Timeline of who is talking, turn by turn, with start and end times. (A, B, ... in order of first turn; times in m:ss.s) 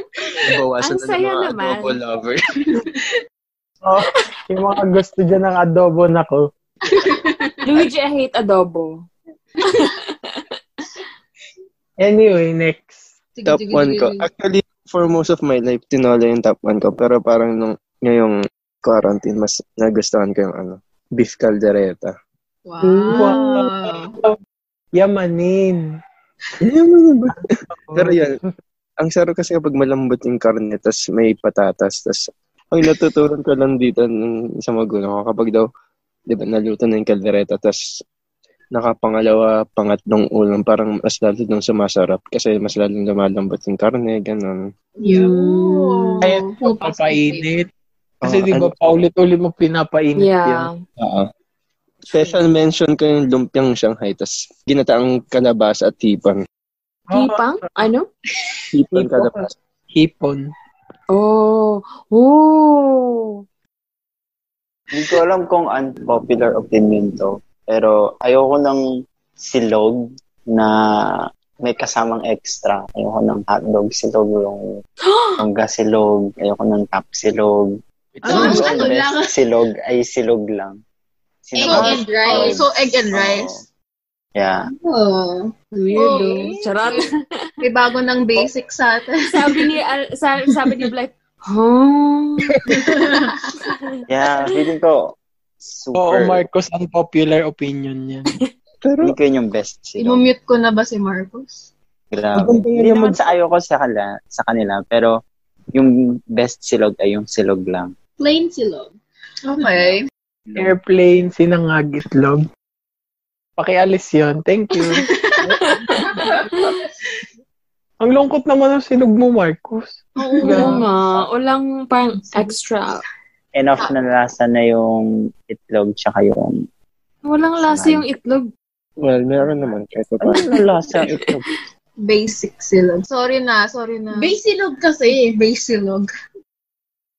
0:00.5-0:02.4 A
0:00.8-0:02.0 B
0:03.8-0:06.5 C
0:07.0-0:07.5 D
0:07.6-0:08.9 B
0:09.6-0:10.3 B
0:12.0-0:13.0 C
0:13.4-0:14.2 E
0:13.5-0:22.1 A
0:22.7-0:24.1 E
0:22.8-0:23.4 B
0:23.1-0:24.4 C
0:25.0-0:25.8 C
0:26.6-0:27.4 A
0:27.3-0:28.5 C
0:28.0-0:28.4 A
0:29.0-0:32.2 A
0:32.7-0:35.7 A
0:36.3-0:37.8 A
0:38.8-0:44.6 A
0:45.0-0:45.4 D
0:45.0-0:46.6 E
0:45.1-0:46.2 B
0:46.2-0:47.7 C
0:46.5-0:47.5 D
0:48.2-0:50.7 C
0:48.2-0:48.7 A
0:50.2-0:50.7 B
0:51.0-0:51.2 A
0:52.1-0:56.4 A
0:57.1-0:57.7 C
0:57.1-0:58.1 B
0:58.7-0:59.5 A
0:58.9-0:59.4 C
1:00.0-1:00.5 C
1:01.1-1:03.3 B
1:04.9-1:08.8 F
1:09.4-1:10.7 F
1:11.6-1:14.6 F
1:15.0-1:15.4 B
1:15.4-1:17.8 F
1:18.2-1:19.1 A
1:18.3-1:18.9 C
1:18.3-1:18.8 E
1:18.3-1:19.4 D
1:18.4-1:20.8 F
1:21.5-1:23.6 F
1:21.6-1:22.7 D
1:21.6-1:23.5 E
1:24.4-1:24.6 F
1:24.9-1:25.5 D
1:25.7-1:27.1 B
1:26.0-1:27.0 E
1:26.1-1:26.9 D
1:27.6-1:29.6 E
1:29.3-1:32.5 B
1:32.6-1:33.0 C
1:32.8-1:33.3 E
1:34.1-1:35.0 F
1:35.6-1:36.4 F
1:36.0-1:38.3 C
1:38.8-1:39.2 A
1:39.0-1:40.3 F
1:40.0-1:41.7 E
1:42.1-1:45.1 F
1:42.4-1:43.2 C
1:45.7-1:47.9 F
1:48.2-1:48.9 D
1:49.5-1:50.1 E
1:50.6-1:52.4 C
1:53.6-1:55.0 C
1:55.5-1:56.7 B
1:56.2-1:56.6 D
1:58.0-2:00.8 C
2:00.2-2:00.8 E
2:00.4-2:00.7 D
2:00.4-2:03.0 B
2:03.6-2:06.5 F
2:07.2-2:08.5 B
2:07.6-2:08.1 F
2:09.0-2:10.5 A
2:10.2-2:11.5 F
2:12.0-2:14.3 E
2:14.1-2:16.1 D